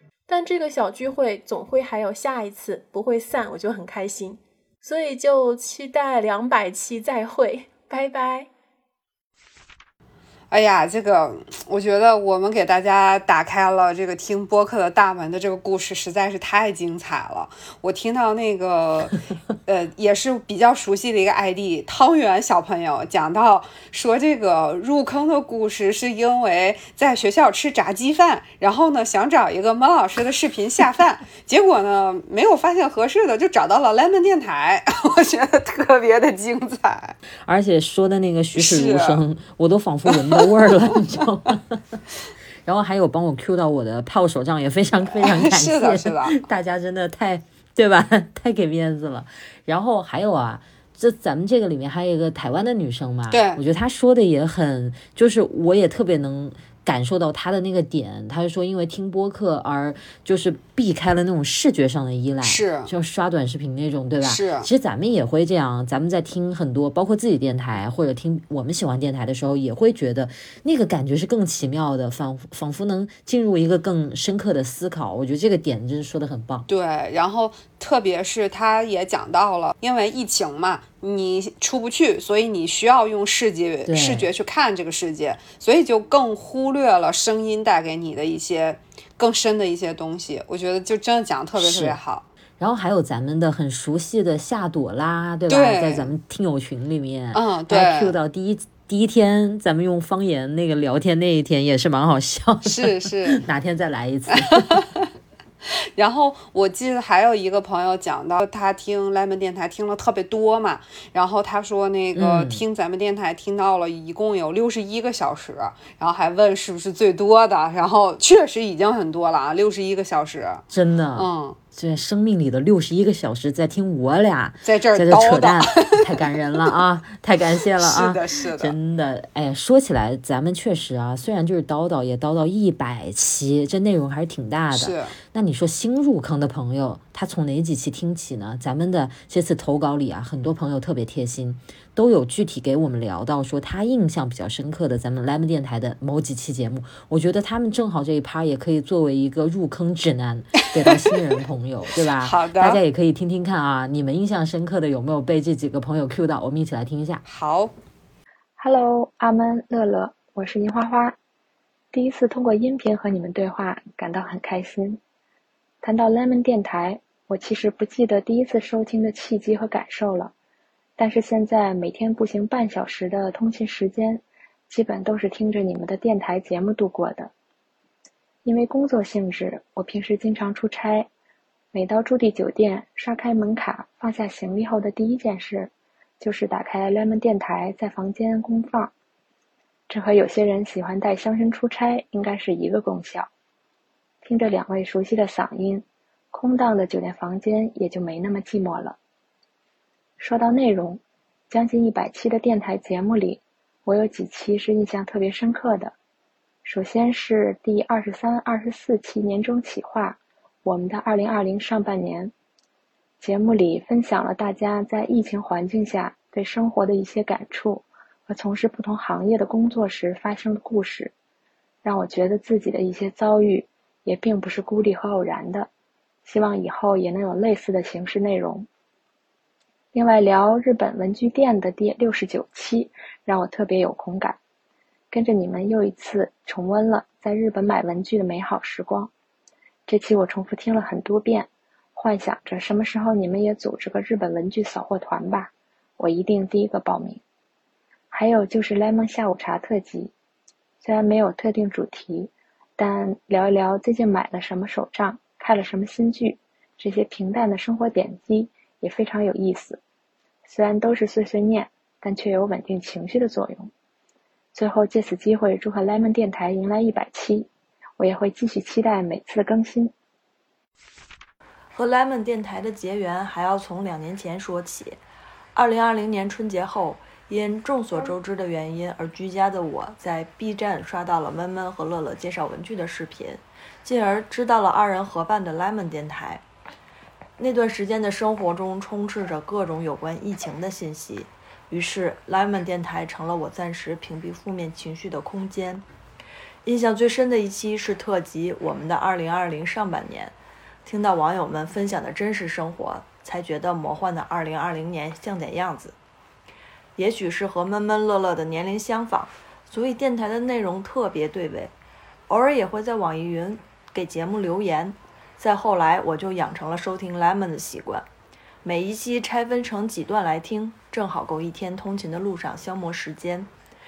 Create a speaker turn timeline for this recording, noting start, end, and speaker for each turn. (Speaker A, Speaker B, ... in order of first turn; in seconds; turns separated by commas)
Speaker A: 0.3-8.5, Speaker B: 10.5-19.1, Speaker B: 19.7-37.2, Speaker C: 37.5-41.6, Speaker B: 38.6-39.2, Speaker B: 40.1-40.5, Speaker C: 42.6-76.7, Speaker B: 45.0-46.4, Speaker B: 53.3-53.6, Speaker B: 62.4-62.9, Speaker B: 64.2-64.7, Speaker B: 76.7-92.2, Speaker C: 83.9-84.3, Speaker C: 91.6-92.0, Speaker C: 92.6-104.8, Speaker B: 95.5-96.1, Speaker B: 97.3-98.1, Speaker B: 102.6-103.4, Speaker B: 104.4-105.1, Speaker B: 106.0-120.6, Speaker C: 112.2-112.6, Speaker C: 120.7-157.2, Speaker B: 121.2-121.6, Speaker B: 124.7-126.2, Speaker B: 127.8-128.8, Speaker B: 134.7-135.1, Speaker B: 152.2-152.8, Speaker B: 157.3-157.7, Speaker D: 158.6-161.2, Speaker D: 161.9-165.0, Speaker D: 165.8-170.3, Speaker D: 171.0-177.3, Speaker D: 178.4-181.1, Speaker D: 181.7-188.9, Speaker D: 189.9-193.3, Speaker D: 194.2-199.0, Speaker D: 200.2-205.9, Speaker D: 206.7-212.3, Speaker D: 213.2-221.1, Speaker D: 221.8-225.7, Speaker D: 226.2-228.7, Speaker D: 229.9-234.4, Speaker D: 235.1-239.1, Speaker D: 239.9-247.2, Speaker D: 248.1-250.1, Speaker D: 250.8-259.8, Speaker D: 260.5-263.7, Speaker D: 264.5-269.9, Speaker E: 271.7-275.0, Speaker E: 275.6-286.4, Speaker E: 287.4-295.9, Speaker E: 296.6-306.0, Speaker E: 307.0-311.7, Speaker E: 312.3-318.1, Speaker E: 318.6-323.5